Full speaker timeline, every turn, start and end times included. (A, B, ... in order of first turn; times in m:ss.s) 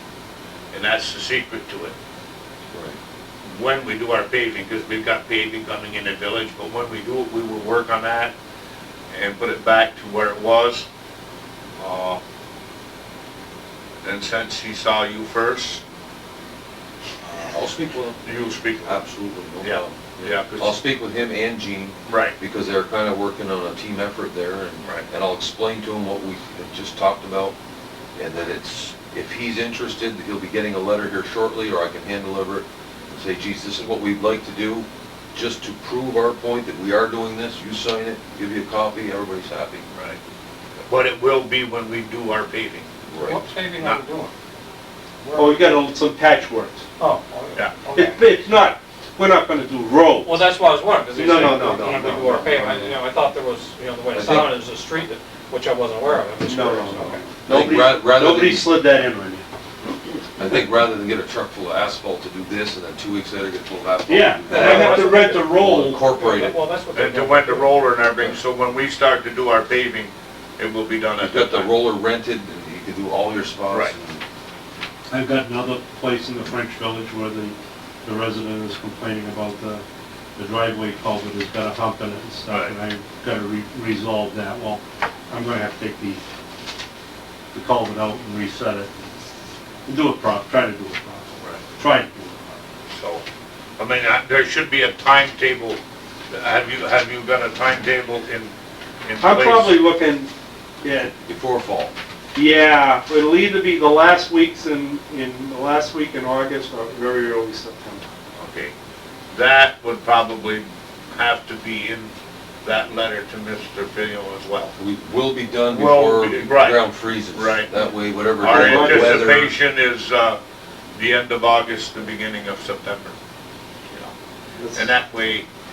0:00.7-0:02.0 A
0:02.7-0:03.0 B
0:03.4-0:08.3 A
0:09.1-0:10.9 A
0:11.8-0:12.2 A
0:14.0-0:15.8 A
0:17.3-0:17.6 A
0:17.4-0:18.2 B
0:18.2-0:19.0 A
0:18.8-0:27.6 B
0:19.6-0:20.8 A
0:22.1-0:22.4 A
0:28.2-0:39.8 B
0:40.9-0:42.9 A
0:43.1-0:43.4 B
0:43.2-0:44.3 C
0:43.8-0:44.0 A
0:45.2-0:45.8 C
0:45.3-0:46.8 D
0:47.0-0:48.3 C
0:48.0-0:50.5 D
0:50.2-0:57.2 C
0:51.1-0:52.9 D
0:54.1-0:54.6 B
0:56.4-0:59.4 D
0:57.5-0:58.8 B
1:00.4-1:06.6 B
1:04.1-1:06.0 D
1:04.5-1:07.8 C
1:06.9-1:11.7 A
1:11.2-1:14.2 B
1:15.1-1:19.8 D
1:20.4-1:26.2 D
1:22.5-1:22.7 A
1:27.5-1:28.9 D
1:29.9-1:32.5 D
1:32.9-1:33.2 A
1:33.8-1:38.5 A
1:39.0-1:39.8 A
1:39.2-1:41.1 D
1:41.3-1:42.0 B
1:42.3-1:48.0 D
1:48.4-1:48.7 A
1:49.3-1:54.7 A
1:54.8-1:59.6 B
1:55.7-1:57.7 A
1:58.4-2:00.4 A
1:58.4-1:59.3 D
2:01.0-2:03.2 A
2:04.6-2:04.9 D
2:04.7-2:05.5 A